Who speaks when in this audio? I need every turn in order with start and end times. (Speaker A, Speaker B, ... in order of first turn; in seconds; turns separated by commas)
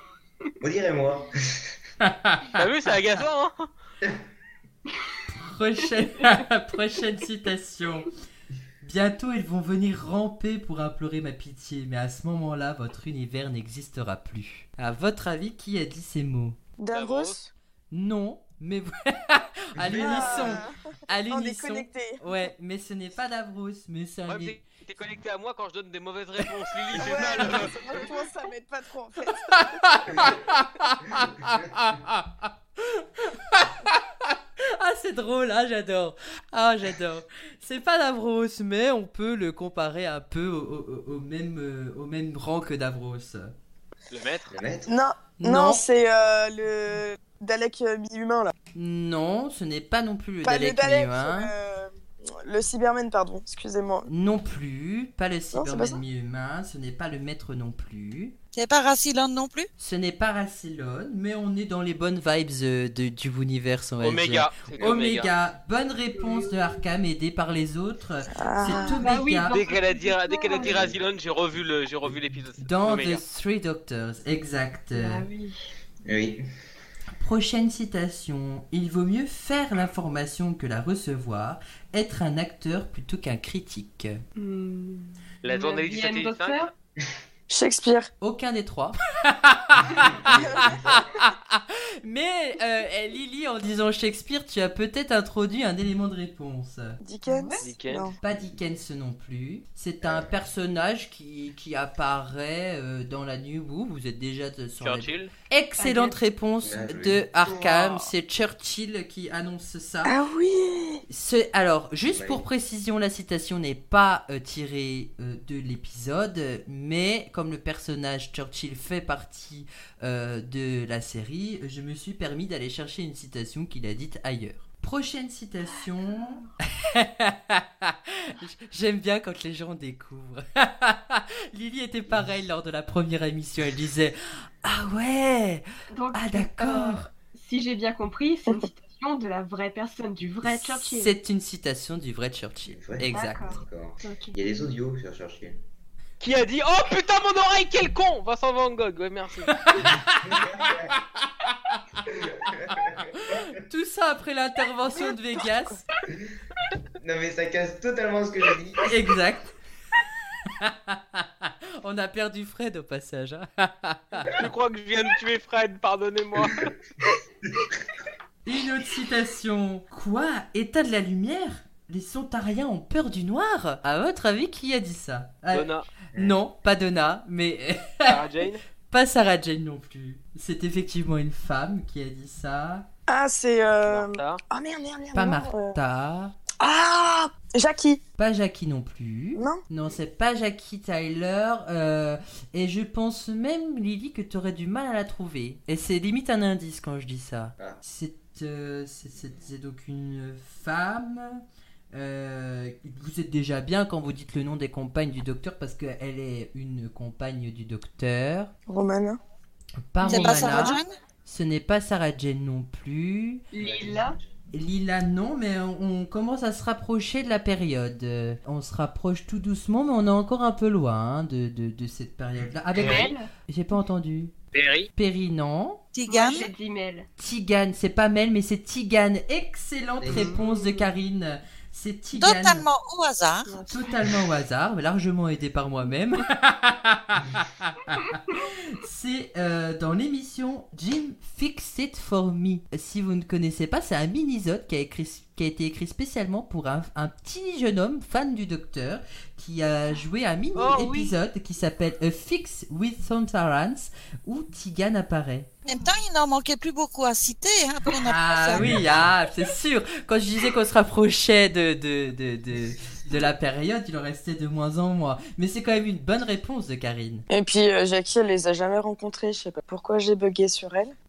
Speaker A: 0.6-1.8, Speaker B: 2.0-2.5, Speaker C: 2.5-3.7, Speaker B: 5.3-8.1, Speaker B: 8.8-16.6, Speaker D: 16.8-17.5, Speaker C: 16.9-17.4, Speaker B: 17.9-24.6, Speaker A: 19.8-20.6, Speaker D: 19.9-20.8, Speaker D: 21.3-22.2, Speaker C: 24.3-28.1, Speaker A: 27.0-27.7, Speaker D: 27.0-30.0, Speaker B: 29.3-43.5, Speaker C: 44.1-44.6, Speaker A: 44.5-44.9, Speaker D: 44.9-48.5, Speaker B: 45.4-45.8, Speaker B: 48.7-51.5, Speaker D: 50.4-54.1, Speaker B: 54.0-58.4, Speaker D: 55.5-56.0, Speaker E: 58.5-59.7, Speaker B: 59.8-69.6, Speaker C: 64.0-65.3, Speaker F: 66.2-66.8, Speaker D: 68.3-69.1, Speaker F: 68.6-70.9, Speaker C: 69.5-73.2, Speaker A: 70.5-71.0, Speaker B: 72.6-75.2, Speaker F: 74.9-75.6, Speaker A: 76.0-76.4, Speaker B: 77.2-84.2, Speaker F: 84.4-86.7, Speaker C: 85.4-86.6, Speaker D: 87.5-88.1, Speaker B: 88.2-97.0, Speaker A: 89.8-91.1, Speaker D: 97.0-98.2, Speaker F: 97.2-97.7, Speaker C: 97.6-98.1, Speaker B: 98.2-110.1, Speaker A: 100.0-100.3, Speaker C: 104.8-105.3, Speaker F: 105.8-106.1, Speaker A: 106.6-107.3, Speaker F: 107.4-108.1, Speaker D: 110.0-111.0, Speaker B: 111.1-137.1, Speaker A: 112.1-112.4, Speaker F: 126.2-126.4, Speaker F: 135.9-141.1, Speaker B: 140.4-143.6, Speaker A: 142.7-145.6, Speaker F: 143.1-144.4, Speaker C: 146.2-149.5, Speaker B: 149.5-150.4, Speaker A: 149.8-151.0, Speaker A: 152.1-153.5, Speaker B: 153.2-155.8, Speaker A: 157.0-158.9, Speaker B: 158.9-159.5, Speaker B: 160.5-164.3, Speaker C: 164.3-166.7, Speaker A: 166.4-166.7, Speaker A: 167.4-167.8, Speaker B: 168.4-178.2, Speaker C: 175.5-175.9, Speaker C: 178.0-178.6, Speaker B: 178.9-182.9, Speaker D: 183.1-185.8, Speaker C: 183.8-184.4, Speaker B: 185.1-186.4, Speaker D: 186.6-188.0, Speaker B: 188.2-201.4, Speaker D: 189.3-189.6, Speaker B: 201.9-208.5, Speaker D: 208.7-209.2, Speaker B: 209.9-213.4, Speaker F: 210.0-210.8, Speaker E: 210.0-210.9, Speaker F: 213.5-214.2, Speaker A: 213.6-214.4, Speaker B: 214.5-224.3, Speaker A: 222.4-223.0, Speaker F: 222.8-223.3, Speaker C: 222.8-223.1, Speaker C: 224.5-224.9, Speaker B: 224.9-225.8, Speaker E: 225.9-226.5, Speaker F: 226.1-227.1, Speaker B: 227.2-232.7, Speaker A: 230.0-230.3, Speaker F: 230.1-230.9, Speaker E: 232.2-233.5, Speaker F: 233.4-234.2, Speaker B: 233.7-255.5, Speaker C: 250.6-251.1, Speaker E: 255.7-258.9, Speaker B: 258.1-267.2, Speaker A: 258.6-259.1, Speaker D: 267.3-270.9